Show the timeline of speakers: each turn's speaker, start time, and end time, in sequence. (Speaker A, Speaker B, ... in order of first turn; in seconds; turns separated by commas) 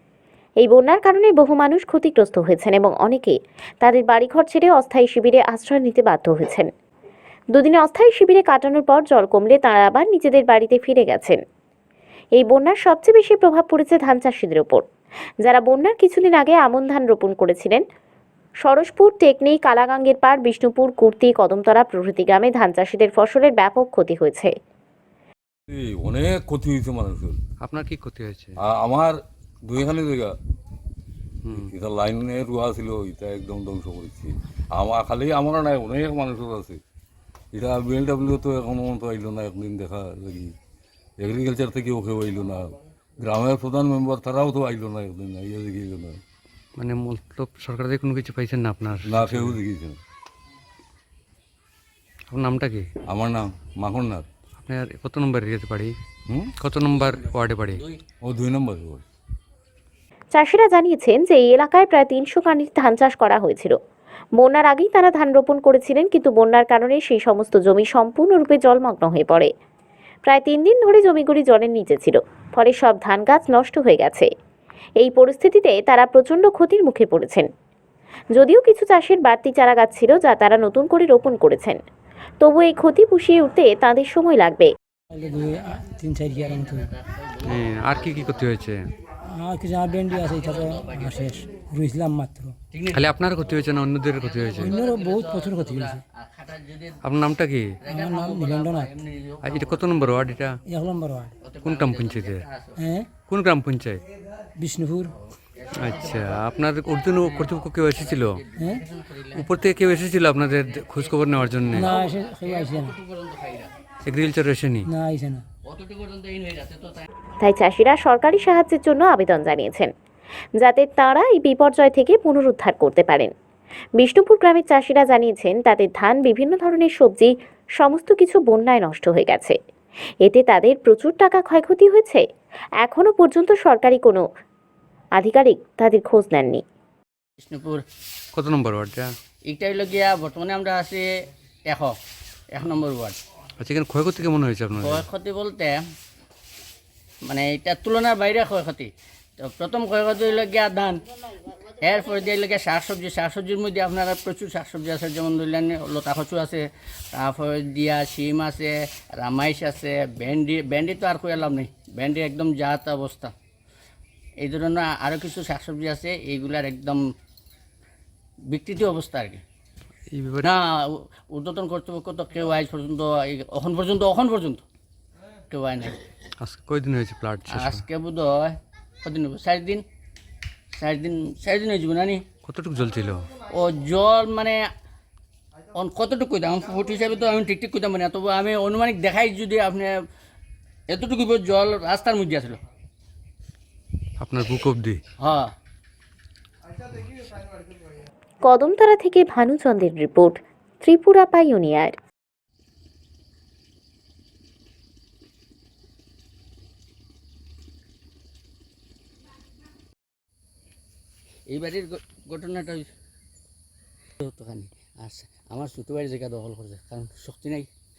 Speaker A: 0.6-6.7, Speaker A: 7.5-11.4, Speaker A: 12.3-14.8, Speaker A: 15.4-17.8, Speaker A: 18.6-24.5, Speaker B: 25.7-27.4, Speaker C: 27.6-28.6, Speaker B: 28.6-30.3, Speaker C: 31.4-31.7, Speaker B: 31.6-36.8, Speaker B: 37.5-40.5, Speaker B: 41.2-46.2, Speaker C: 46.8-49.6, Speaker B: 49.1-50.0, Speaker C: 52.3-52.9, Speaker B: 53.1-54.3, Speaker C: 54.6-55.9, Speaker C: 56.6-57.8, Speaker D: 57.0-58.0, Speaker B: 58.2-59.0, Speaker A: 60.3-63.8, Speaker A: 64.4-69.5, Speaker A: 70.3-74.3, Speaker A: 75.0-77.5, Speaker A: 78.3-81.8, Speaker A: 82.4-84.7, Speaker E: 85.1-86.9, Speaker D: 86.3-88.5, Speaker C: 87.4-88.8, Speaker E: 89.3-92.6, Speaker D: 90.0-91.4, Speaker D: 92.7-93.0, Speaker C: 92.9-94.7, Speaker D: 94.2-97.0, Speaker E: 94.6-96.0, Speaker C: 97.0-97.8, Speaker D: 97.8-100.3, Speaker E: 97.9-98.9, Speaker C: 99.4-100.6, Speaker E: 100.7-101.4, Speaker D: 101.4-102.8, Speaker C: 101.6-102.5, Speaker E: 102.8-103.1, Speaker C: 103.2-104.0, Speaker E: 104.6-105.1, Speaker D: 105.1-106.4, Speaker C: 105.8-108.4, Speaker D: 107.2-109.5, Speaker E: 108.6-108.8, Speaker C: 109.3-111.9, Speaker D: 110.8-113.7, Speaker E: 111.7-113.0, Speaker C: 114.1-114.9, Speaker E: 114.9-115.4, Speaker D: 115.7-117.0, Speaker A: 117.4-119.9, Speaker A: 120.6-123.3, Speaker A: 124.0-129.6, Speaker A: 130.2-132.2, Speaker A: 132.8-134.2, Speaker A: 135.2-136.6, Speaker D: 137.4-137.8, Speaker C: 138.3-139.1, Speaker D: 139.5-141.1, Speaker D: 141.7-142.0, Speaker D: 142.5-143.2, Speaker C: 143.6-145.1, Speaker D: 144.8-145.8, Speaker D: 147.2-151.0, Speaker D: 151.6-163.3, Speaker D: 164.4-167.1, Speaker D: 168.4-169.4, Speaker C: 170.1-170.5, Speaker D: 170.4-174.6, Speaker D: 175.5-176.0, Speaker C: 176.4-177.9, Speaker D: 177.5-179.8, Speaker D: 180.7-182.2, Speaker C: 182.4-183.3, Speaker D: 183.5-184.7, Speaker D: 185.7-190.0, Speaker D: 190.9-192.6, Speaker C: 194.2-195.0, Speaker D: 195.2-195.5, Speaker A: 198.4-201.9, Speaker D: 211.5-212.9, Speaker D: 214.2-217.7